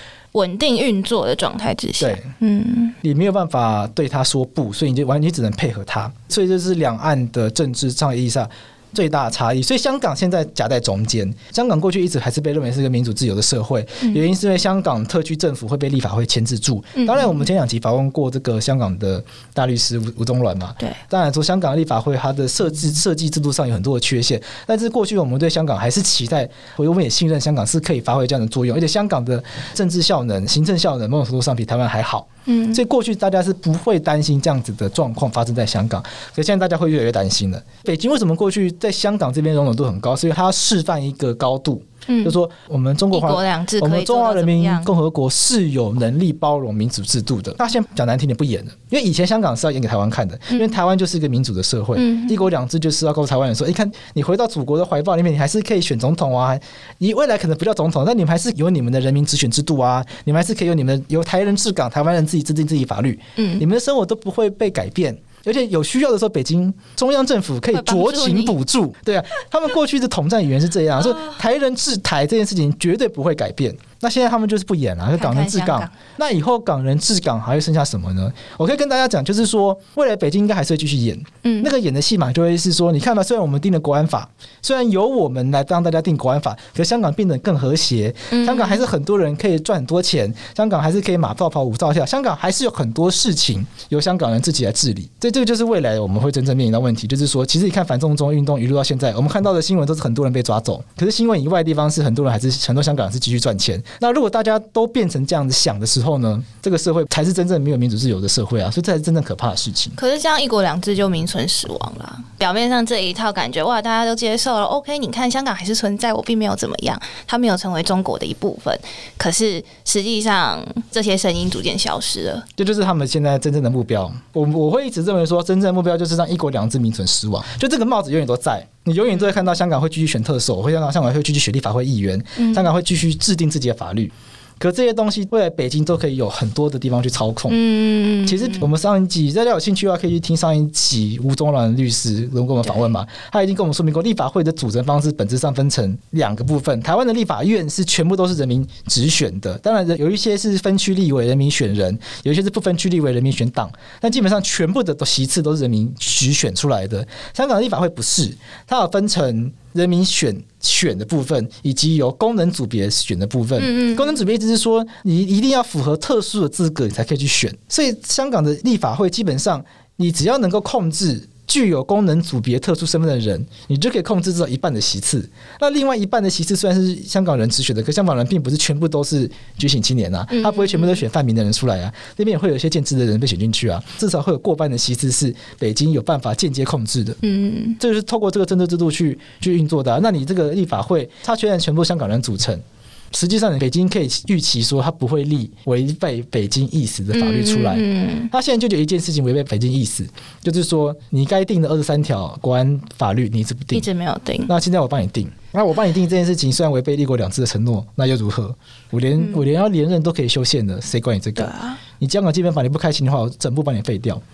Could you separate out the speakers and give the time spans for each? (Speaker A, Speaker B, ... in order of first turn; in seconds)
Speaker A: 0.3-3.0, 17.0-17.4, 32.5-32.8, 42.1-42.3, 43.1-44.9, 52.0-52.4, 63.4-63.6, 67.7-68.5, 75.2-76.0, 81.4-81.7, 88.3-88.8, 110.0-122.5, 132.4-132.7, 137.5-138.7, 163.6-164.1, 180.3-181.0, 187.2-187.8, 197.1-198.3, 203.7-204.5, 209.2-209.4, 211.4-211.8
Speaker B: 2.0-2.3, 3.0-110.0, 122.6-137.6, 138.2-187.2, 187.8-192.6, 193.1-203.8, 204.5-214.2